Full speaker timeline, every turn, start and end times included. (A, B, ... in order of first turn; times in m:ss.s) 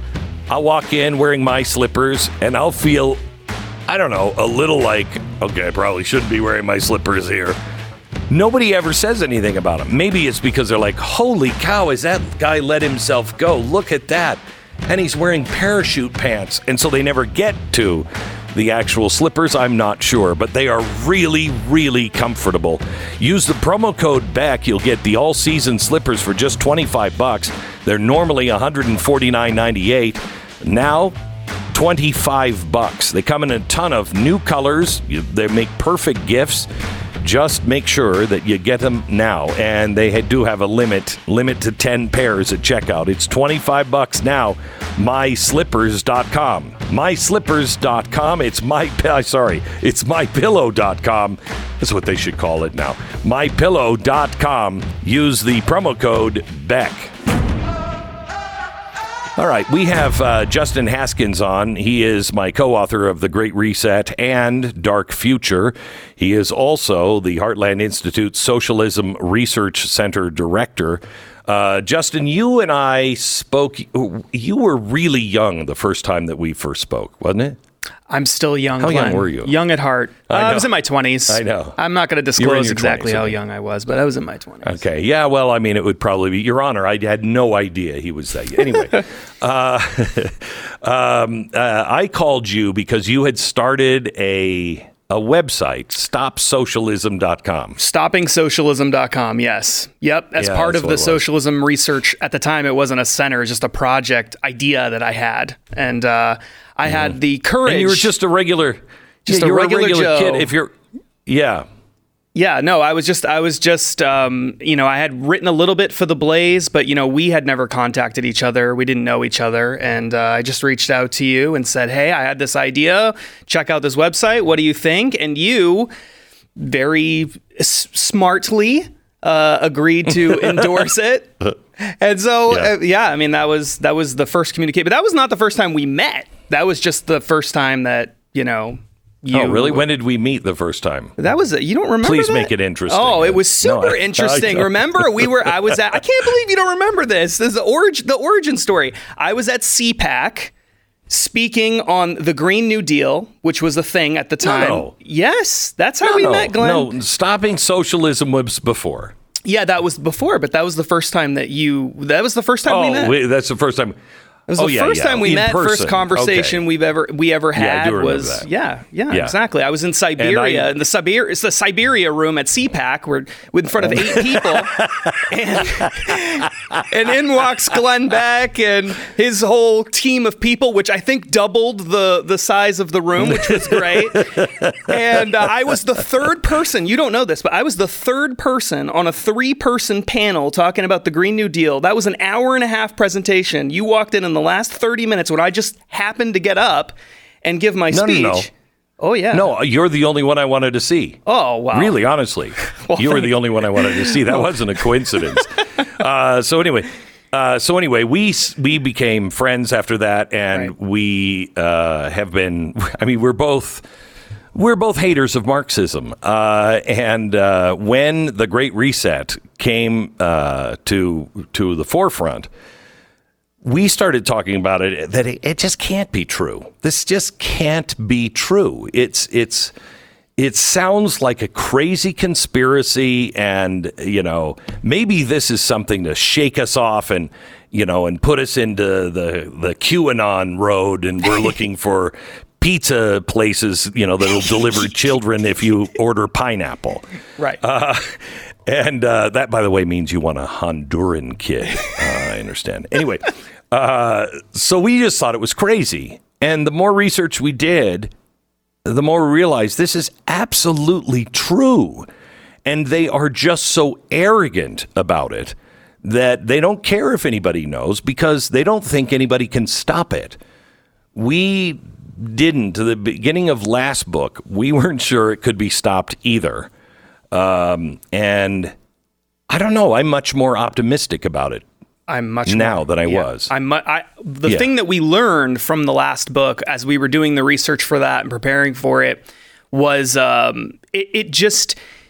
0:00.5-0:03.2 A
0:03.9-0:07.6 A
0:08.3-0:31.2 A
0:31.7-0:36.7 A
0:37.2-0:57.1 A
0:59.4-1:17.6 A
1:18.1-1:24.8 B
1:18.8-1:19.5 A
1:20.3-1:20.7 A
1:21.3-1:21.8 A
1:22.4-1:23.4 A
1:24.6-1:37.8 A
1:37.8-1:48.1 B
1:40.4-1:41.2 A
1:47.6-1:50.7 A
1:49.2-1:50.5 B
1:51.2-1:51.7 A
1:52.3-2:05.9 B
2:06.6-2:19.8 B
2:19.3-2:21.1 A
2:21.2-2:30.5 B
2:22.0-2:25.5 A
2:31.1-2:36.9 B
2:34.4-2:34.9 A
2:36.0-2:39.1 A
2:39.4-2:43.1 B
2:42.6-2:44.0 A
2:44.5-3:19.5 B
2:44.6-2:46.6 A
2:47.5-2:48.5 A
2:49.1-2:49.3 A
2:50.2-2:50.7 A
2:53.8-2:55.3 A
3:03.2-3:04.9 A
3:17.9-3:18.5 A
3:19.3-3:21.2 A
3:21.2-3:22.0 B
3:21.7-3:33.8 A
3:22.8-3:24.5 B
3:34.5-3:42.5 A
3:43.6-3:49.7 A
3:50.4-4:07.0 A
4:07.6-4:18.1 A
4:18.8-4:22.1 A
4:22.6-4:30.4 A
4:31.1-4:36.7 A
4:37.3-4:38.7 A
4:39.5-4:41.6 A
4:42.1-4:51.8 B
4:42.4-4:43.5 A
4:44.4-4:44.7 A